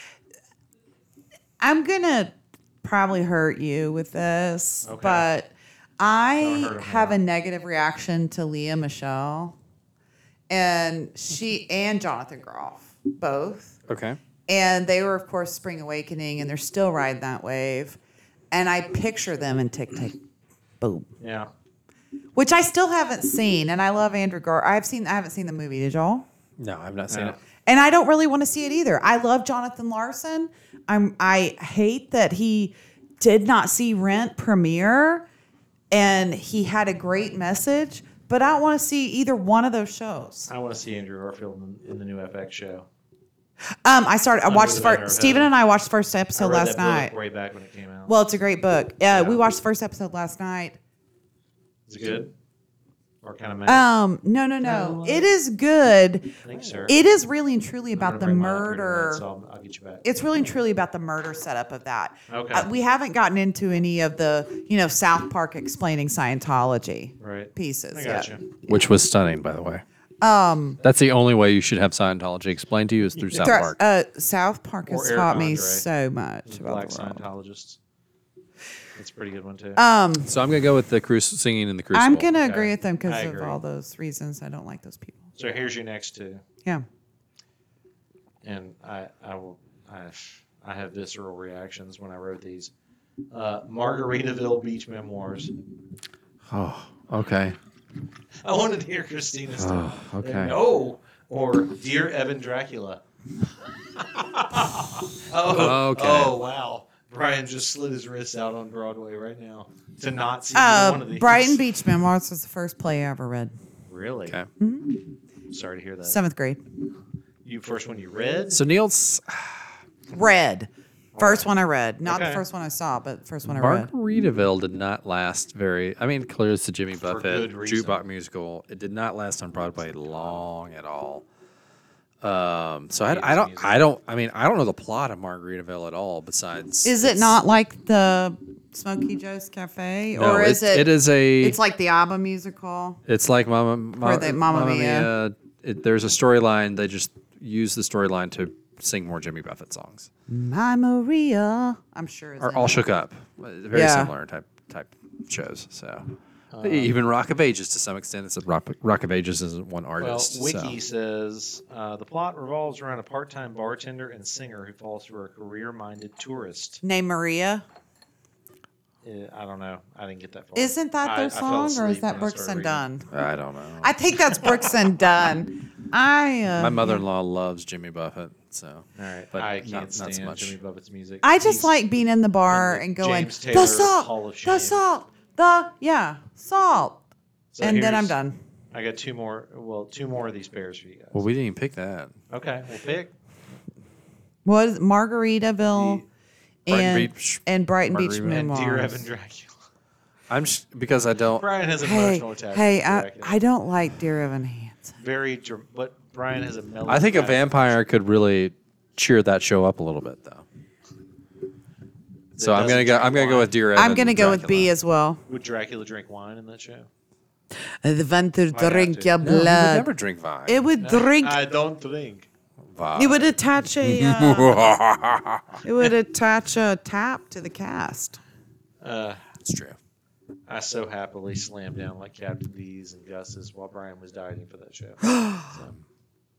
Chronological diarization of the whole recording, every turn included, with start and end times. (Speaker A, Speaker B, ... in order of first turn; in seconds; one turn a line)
Speaker A: 1.6-9.5
Speaker B: 4.8-5.3
Speaker B: 6.4-7.2
Speaker A: 10.5-13.8
Speaker C: 13.9-14.2
Speaker A: 14.5-18.0
Speaker A: 18.5-20.2
Speaker A: 20.8-21.1
Speaker B: 21.2-21.5
Speaker A: 22.3-26.2
Speaker C: 26.6-27.4
Speaker B: 27.1-27.4
Speaker A: 27.6-35.2
Speaker A: 35.9-40.5
Speaker B: 40.5-42.9
Speaker A: 43.8-47.1
Speaker B: 44.5-45.5
Speaker B: 46.3-48.1
Speaker A: 48.1-50.8
Speaker B: 49.1-49.4
Speaker B: 51.9-52.3
Speaker B: 53.2-53.9
Speaker A: 53.6-56.3
Speaker B: 54.6-55.3
Speaker B: 56.4-56.9
Speaker A: 56.9-59.2
Speaker B: 57.9-60.0
Speaker A: 60.0-68.5
Speaker B: 62.3-62.7
Speaker B: 67.2-68.4
Speaker C: 68.7-69.8
Speaker A: 70.2-70.8
Speaker C: 70.8-73.8
Speaker A: 73.4-77.2
Speaker B: 74.9-75.8
Speaker B: 76.5-77.8
Speaker B: 79.0-79.8
Speaker A: 79.8-80.3
Speaker C: 80.2-82.3
Speaker A: 81.9-85.3
Speaker B: 82.4-83.6
Speaker B: 85.3-86.4
Speaker B: 88.4-92.7
Speaker B: 93.3-95.5
Speaker C: 96.5-97.6
Speaker B: 98.4-103.0
Speaker C: 99.5-100.6
Speaker B: 103.9-111.6
Speaker C: 105.4-106.4
Speaker A: 110.5-113.5
Speaker B: 113.9-114.4
Speaker A: 114.6-115.0
Speaker B: 115.5-116.2
Speaker A: 116.0-116.6
Speaker B: 117.4-118.6
Speaker C: 118.5-119.7
Speaker A: 120.1-123.9
Speaker B: 121.1-121.5
Speaker B: 122.0-122.4
Speaker C: 123.4-131.2
Speaker B: 127.0-128.0
Speaker B: 129.8-130.4
Speaker C: 132.2-137.3
Speaker B: 133.0-133.8
Speaker A: 136.8-143.0
Speaker C: 140.1-141.6
Speaker C: 143.1-150.1
Speaker A: 144.0-145.1
Speaker A: 150.3-152.8
Speaker C: 152.4-160.8
Speaker A: 153.7-154.1
Speaker B: 156.5-156.9
Speaker B: 160.0-166.8
Speaker A: 166.8-167.6
Speaker B: 169.0-172.8
Speaker A: 170.6-173.1
Speaker C: 173.1-173.9
Speaker A: 173.8-177.0
Speaker C: 176.6-180.6
Speaker B: 178.9-181.7
Speaker A: 181.2-187.0
Speaker B: 182.5-184.8
Speaker B: 187.5-188.1
Speaker A: 187.6-188.4
Speaker B: 188.7-191.2
Speaker C: 191.1-192.1
Speaker B: 192.3-193.1
Speaker A: 194.4-196.0
Speaker B: 195.7-196.0
Speaker A: 196.7-199.0
Speaker C: 196.7-198.5
Speaker B: 198.3-199.6
Speaker C: 200.3-201.4
Speaker B: 201.4-203.4
Speaker A: 201.8-204.9
Speaker B: 204.9-207.7
Speaker C: 206.9-210.4
Speaker C: 212.3-214.7
Speaker B: 212.3-213.6
Speaker A: 213.7-215.2
Speaker B: 215.3-216.9
Speaker A: 217.8-219.9
Speaker B: 218.5-219.1
Speaker C: 219.2-220.6
Speaker A: 220.4-221.4
Speaker B: 220.8-222.3
Speaker C: 222.6-225.6
Speaker A: 222.9-224.8
Speaker A: 225.6-228.2
Speaker B: 228.8-229.2
Speaker C: 229.4-229.8
Speaker B: 230.5-235.8
Speaker A: 235.0-235.5